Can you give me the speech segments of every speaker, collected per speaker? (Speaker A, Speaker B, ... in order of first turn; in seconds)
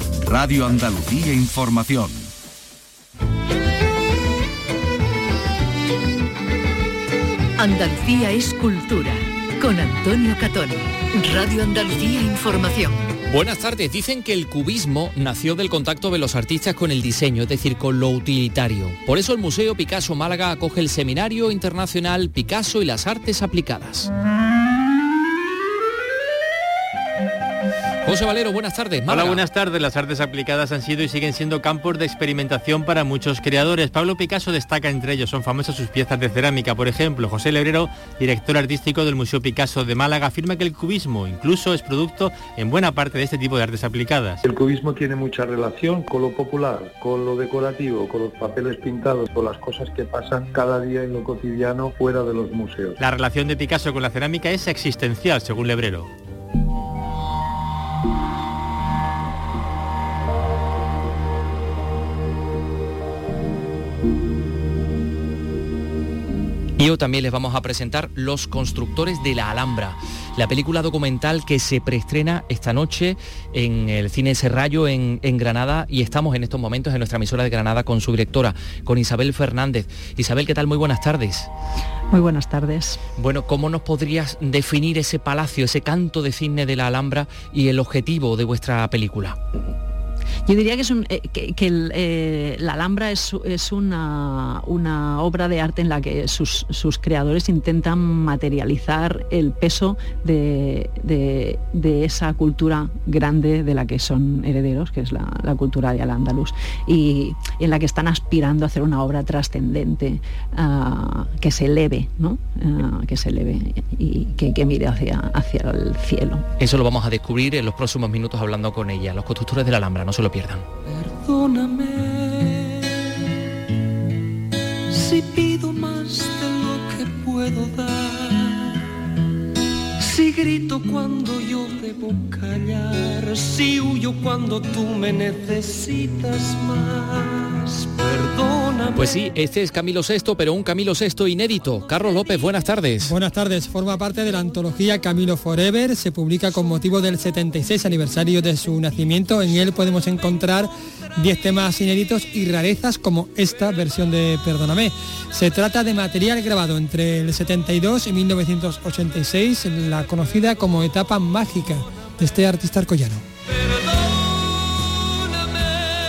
Speaker A: 0.3-2.3
Speaker B: 7.6-13.0
Speaker C: 13.3-24.1, 28.1-29.4, 66.8-81.5, 83.2-89.4, 116.6-120.7, 138.9-143.2
Speaker D: 29.1-44.4, 53.0-56.1
Speaker E: 44.5-53.0
Speaker F: 82.1-83.0, 90.5-116.5
Speaker G: 120.8-123.0, 124.9-128.8, 130.0-139.3, 163.6-164.1, 165.3-165.7
Speaker H: 143.0-163.3